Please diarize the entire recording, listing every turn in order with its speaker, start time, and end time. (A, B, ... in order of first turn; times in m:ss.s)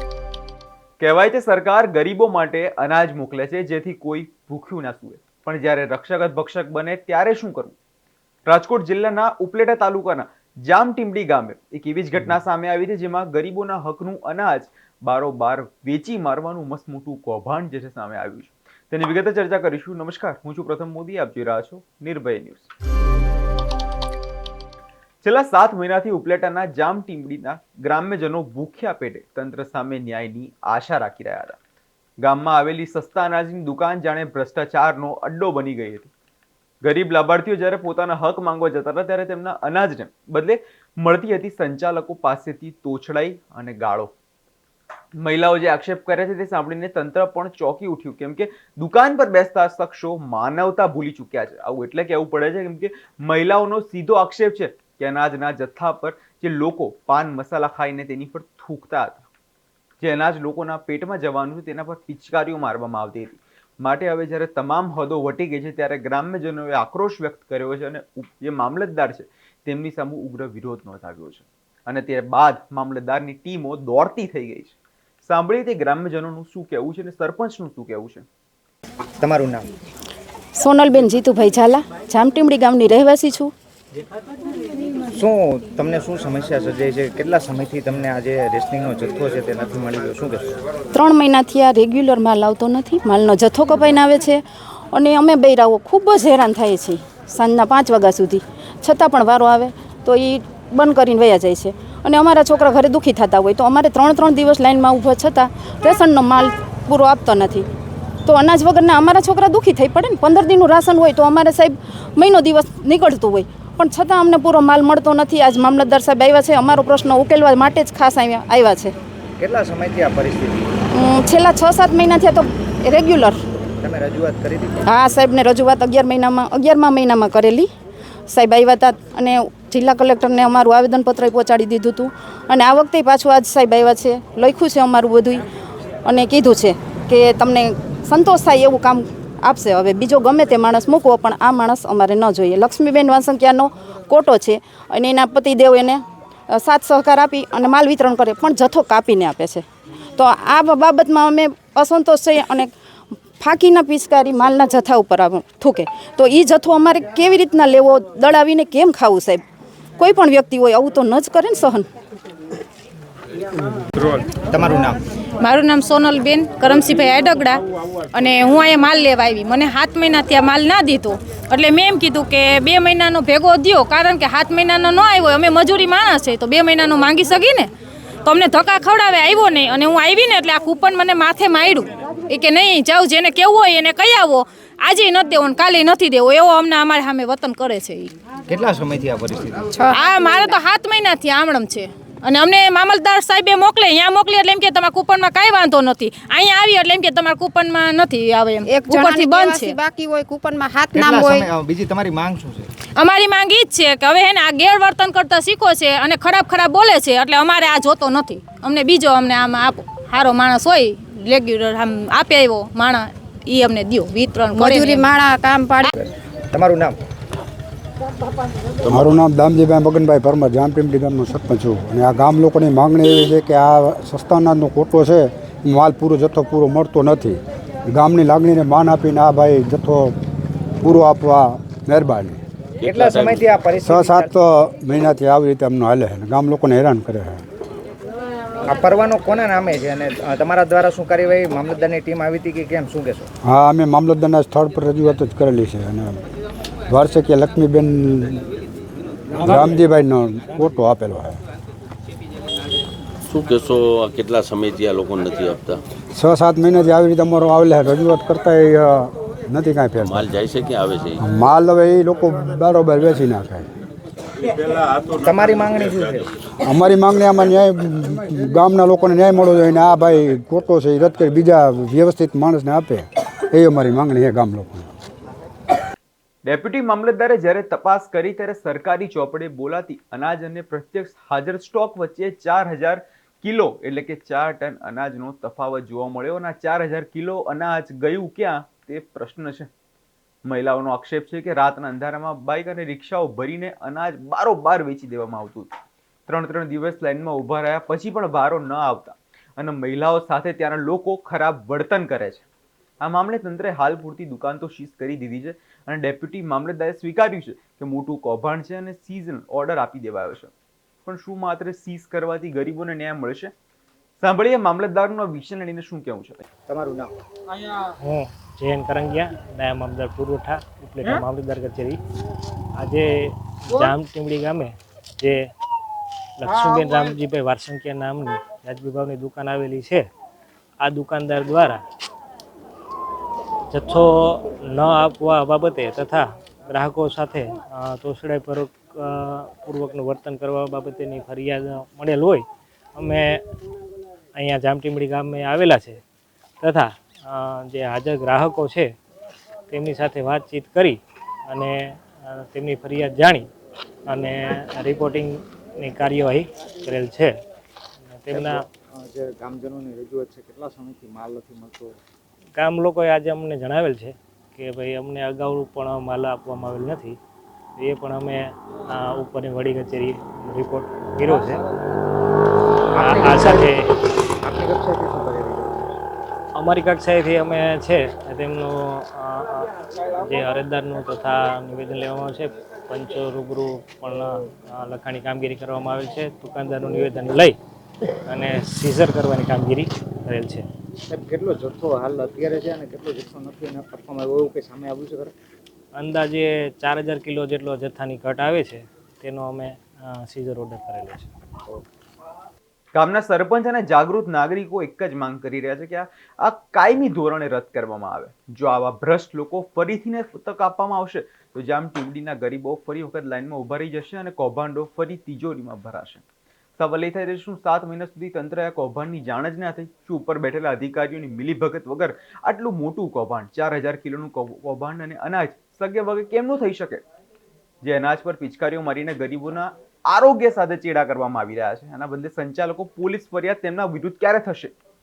0:01.0-0:07.8 A
0:08.5-0:22.7 A
0:25.2-0:31.6 A
0:32.2-0:36.1 A
0:36.8-0:44.1 A
0:45.2-0:59.2 A
1:00.0-1:18.2 A
1:19.2-1:19.7 B
1:20.6-1:23.5 C
1:25.1-1:30.5 B
1:30.9-1:34.4 C
1:34.9-1:47.6 C
1:48.2-1:58.9 C
1:59.4-2:00.7 B
2:01.0-2:03.4 C
2:03.8-2:04.8 B
2:04.9-2:07.7 C
2:08.3-2:15.4 C
2:16.0-2:29.6 C
2:30.2-2:32.7 C
2:33.4-2:39.4 C
2:40.0-2:41.9 C
2:44.0-2:45.0 B
2:45.4-2:57.7 D
2:58.2-3:08.1 D
3:08.5-3:09.7 B
3:09.9-3:19.8 D
3:18.6-3:21.5 E
3:20.9-3:22.7 B
3:22.9-3:35.1 D
3:34.5-3:35.9 E
3:35.9-3:37.0 B
3:38.8-3:39.2 F
3:38.9-3:50.1 G
3:50.8-3:52.4 G
3:52.8-3:53.5 F
3:52.8-3:54.4 B
3:53.8-3:57.4 G
3:58.7-4:03.3 B
4:03.4-4:06.2 G
4:06.9-4:08.4 G
4:09.4-4:11.4 G
4:13.2-4:15.8 F
4:16.1-4:20.3 G
4:20.0-4:21.2 F
4:21.2-4:23.6 G
4:25.1-4:26.3 B
4:26.6-4:34.9 G
4:36.4-4:49.7 A
4:50.5-4:55.7 A
4:56.3-5:02.4 A
5:03.0-5:10.5 A
5:11.0-5:13.5 A
5:14.2-5:16.4 A
5:16.7-5:17.1 B
5:18.0-5:22.0 H
5:22.8-5:25.5 H
5:26.4-5:30.1 H
5:30.8-5:31.8 H
5:33.7-5:43.4 H
5:44.3-5:46.0 H
5:46.6-5:48.9 H
5:49.7-5:53.5 H
5:54.1-5:57.3 H
5:58.1-5:58.6 H
5:58.3-6:01.9 B
6:02.5-6:07.2 H
6:07.8-6:11.6 H
6:12.9-6:13.9 H
6:13.0-6:13.6 B
6:14.4-6:15.9 B
6:16.5-6:27.6 H
6:28.2-6:30.6 H
6:31.1-6:35.3 B
6:36.0-6:41.3 H
6:42.9-6:56.2 A
6:56.8-7:07.0 A
7:07.8-7:14.7 A